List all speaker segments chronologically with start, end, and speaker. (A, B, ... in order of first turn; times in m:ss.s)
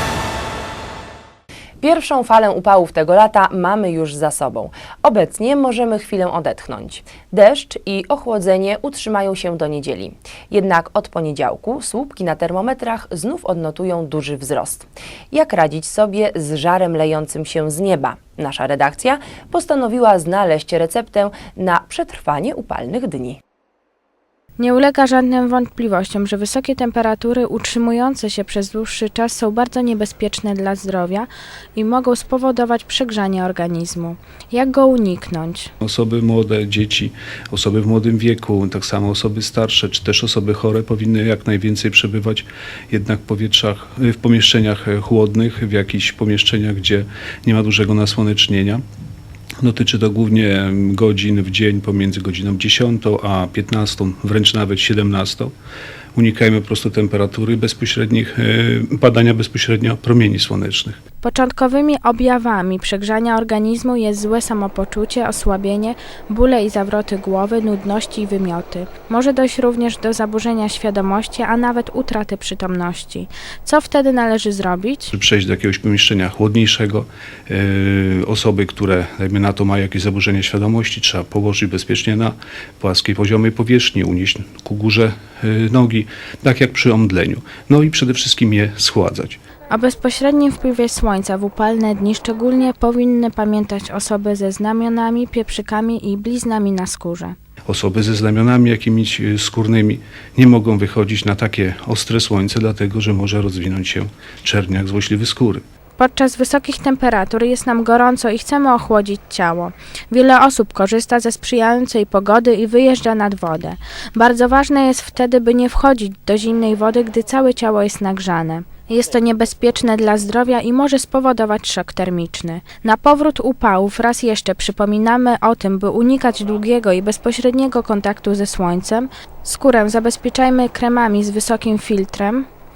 0:01.8-0:23.4 A
0:24.6-0:35.7 B
0:35.8-0:48.8 C
0:49.6-0:55.5 C
0:56.2-1:01.0 C
1:01.2-1:15.1 B
1:15.1-1:29.4 C
1:29.7-1:37.4 B
1:37.7-1:45.6 C
1:46.0-2:12.5 B